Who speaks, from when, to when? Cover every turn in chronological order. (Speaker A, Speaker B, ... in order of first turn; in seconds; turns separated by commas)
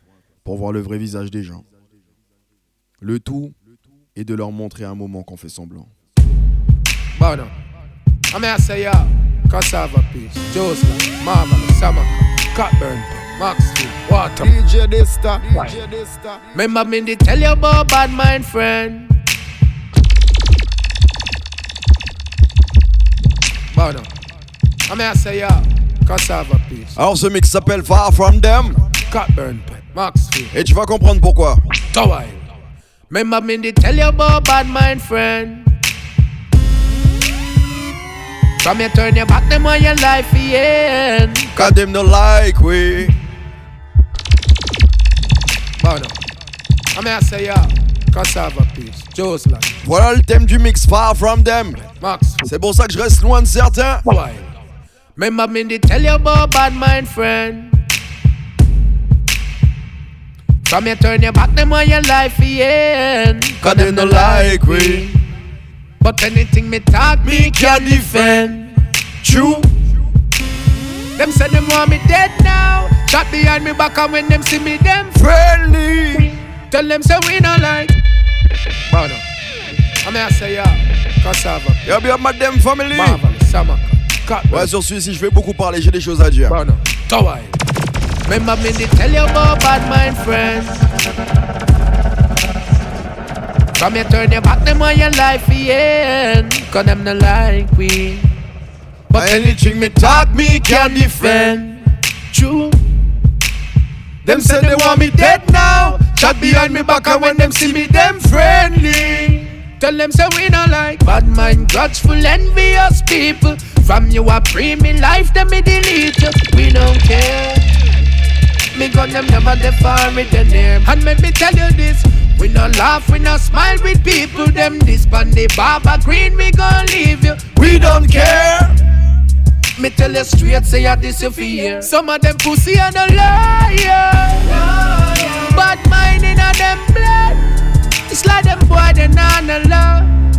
Speaker A: 0.5-1.6, Speaker A: 3.0-3.5, Speaker A: 4.2-5.9, Speaker B: 7.2-7.5, Speaker B: 8.3-14.5, Speaker C: 14.4-16.4, Speaker B: 16.5-19.1, Speaker B: 23.7-24.1, Speaker B: 24.9-26.9, Speaker A: 27.0-28.8, Speaker B: 29.1-30.6, Speaker A: 30.5-31.6, Speaker B: 31.9-32.5, Speaker B: 33.1-35.7, Speaker B: 38.6-41.5, Speaker A: 41.5-43.1, Speaker B: 45.8-46.2, Speaker B: 46.9-49.8, Speaker A: 49.8-51.8, Speaker B: 52.0-52.4, Speaker A: 52.4-54.0, Speaker B: 54.0-54.5, Speaker B: 55.2-57.8, Speaker B: 60.6-65.2, Speaker A: 63.6-65.1, Speaker B: 66.0-68.7, Speaker A: 67.2-68.4, Speaker A: 69.2-69.7, Speaker B: 71.2-75.2, Speaker A: 75.2-76.3, Speaker B: 76.7-78.0, Speaker B: 78.9-79.2, Speaker B: 80.0-81.8, Speaker A: 81.9-83.2, Speaker B: 82.9-84.7, Speaker A: 84.5-86.6, Speaker B: 86.5-87.5, Speaker B: 88.3-90.9, Speaker B: 93.8-98.3, Speaker B: 99.1-102.8, Speaker A: 99.2-101.5, Speaker B: 104.2-109.1, Speaker A: 104.2-109.4, Speaker B: 109.8-117.7, Speaker B: 118.7-128.4, Speaker A: 127.6-128.7, Speaker B: 129.8-137.4, Speaker B: 138.1-140.1